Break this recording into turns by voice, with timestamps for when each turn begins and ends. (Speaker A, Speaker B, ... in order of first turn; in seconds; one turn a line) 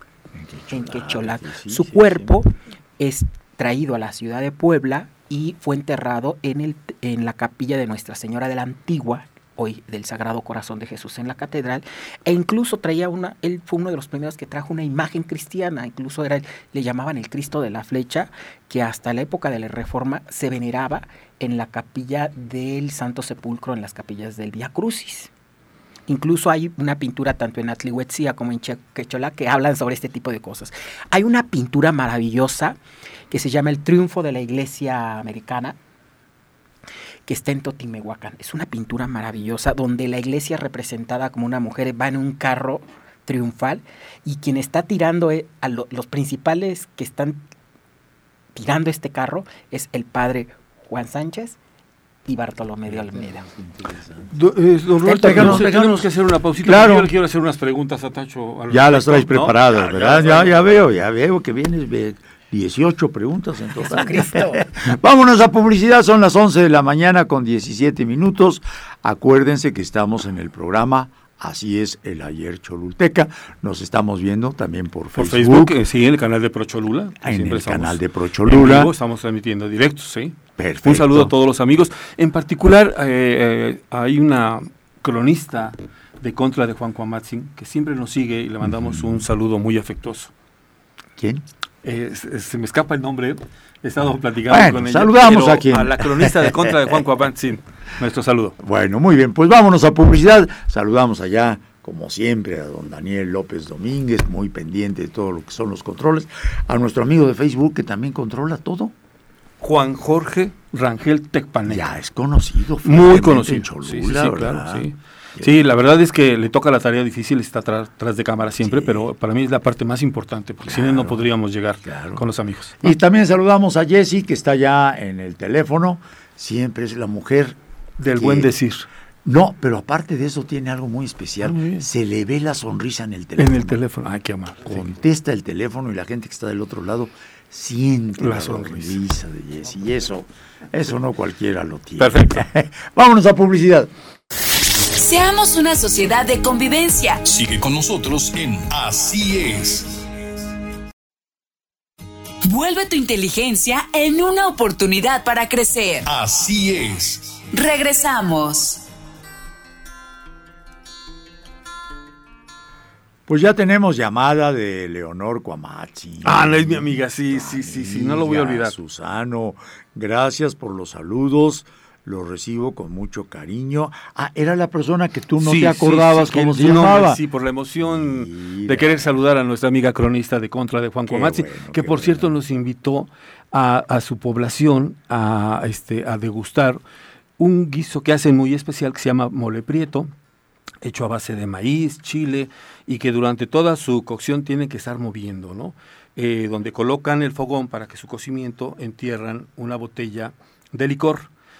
Speaker A: 0.3-2.3
Speaker B: 0.7-25.3
Speaker B: 26.1-32.8
Speaker B: 33.3-35.8
Speaker B: 37.3-47.4
Speaker B: 48.5-51.6
Speaker B: 52.2-53.4
Speaker A: 52.9-54.3
Speaker C: 54.3-60.8
Speaker B: 55.0-55.7
Speaker A: 55.1-57.1
Speaker A: 58.7-75.7
Speaker B: 63.8-64.7
Speaker C: 75.1-90.3
Speaker A: 77.2-78.9
Speaker A: 80.6-81.3
Speaker A: 91.2-91.4
Speaker C: 91.8-98.5
Speaker A: 94.5-97.0
Speaker A: 98.6-108.9
Speaker C: 109.6-111.9
Speaker A: 111.6-115.5
Speaker C: 112.8-123.0
Speaker A: 118.6-119.1
Speaker A: 120.7-121.2
Speaker A: 121.8-122.2
Speaker A: 122.8-128.5
Speaker C: 128.0-128.9
Speaker A: 129.2-133.8
Speaker C: 131.4-131.8
Speaker C: 133.4-134.9
Speaker A: 134.6-143.9
Speaker C: 138.2-139.0
Speaker C: 142.0-142.4
Speaker D: 144.8-147.2
Speaker E: 147.2-150.0
Speaker D: 152.4-156.1
Speaker E: 156.1-157.4
Speaker D: 157.5-158.8
Speaker A: 163.3-177.2
Speaker C: 166.2-168.7
Speaker C: 175.4-186.8
Speaker A: 177.8-179.0
Speaker A: 181.1-182.3
Speaker C: 187.4-190.1
Speaker C: 190.8-201.3